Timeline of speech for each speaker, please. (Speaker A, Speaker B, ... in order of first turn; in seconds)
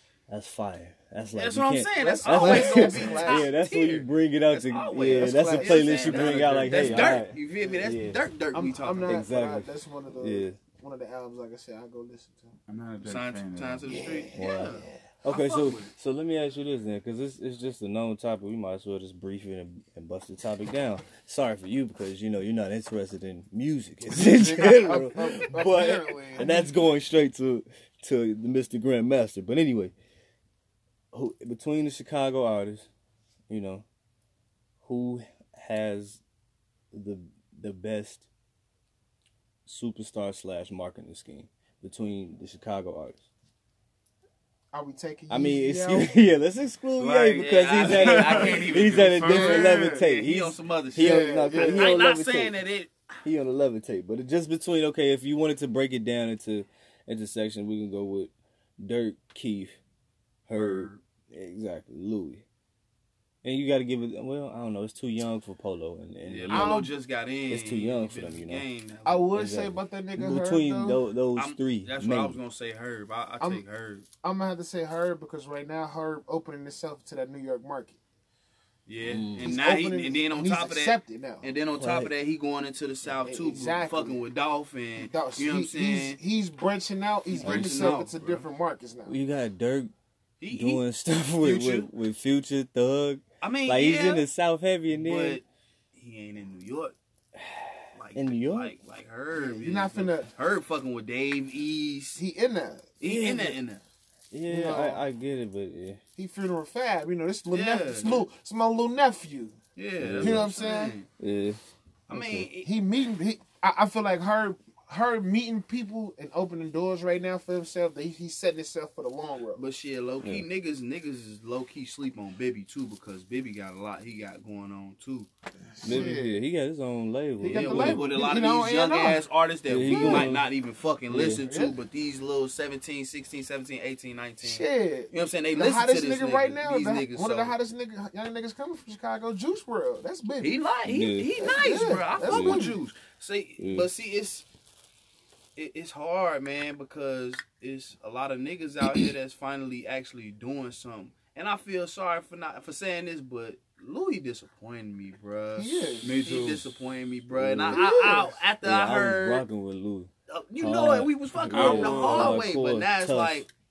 Speaker A: 0.3-8.2, 9.1-10.6, 14.3-29.9, 31.1-32.9, 33.5-33.8, 34.8-36.2, 36.9-38.2, 39.6-43.2, 45.3-52.5, 53.2-59.8, 60.5-62.4, 63.4-66.9, 67.5-68.7, 69.3-72.4, 79.0-79.5, 81.8-82.1, 87.4-88.0, 89.0-89.9, 90.5-95.4, 97.4-98.7, 103.0-103.6, 104.3-106.0, 110.0-110.5, 111.2-112.5, 125.8-128.1, 129.7-130.5, 131.1-131.4, 140.8-141.3, 142.2-142.6, 143.6-143.9, 157.3-163.4
Speaker B: 1.3-9.2, 13.0-15.9, 47.3-52.9, 60.5-61.0, 66.2-69.3, 71.3-74.0, 78.9-86.2, 87.3-88.5, 90.4-90.8, 91.4-91.9, 93.4-94.2, 94.9-96.9, 97.9-102.2, 103.0-103.8, 107.5-108.2, 109.8-111.1, 112.1-112.7, 119.5-125.3, 127.5-137.6, 140.4-144.4, 145.6-159.4, 160.3-163.5
Speaker C: 2.1-3.5, 4.9-7.2, 8.5-12.6, 13.8-15.0, 24.1-26.7, 44.7-46.1, 49.2-49.7, 51.0-52.0, 66.5-66.9, 69.0-71.0, 74.2-78.0, 79.4-81.5, 83.2-84.2, 85.0-89.1, 99.3-100.3, 102.2-102.9, 104.5-105.0, 106.2-109.6, 110.2-111.0, 112.6-119.6, 125.7-126.4, 127.4-129.2, 129.9-130.3, 131.3-131.8, 134.4-140.6, 141.3-142.8, 155.6-156.1, 157.7-158.3
Speaker D: 12.7-13.9, 47.0-50.0, 156.0-156.8, 161.4-162.4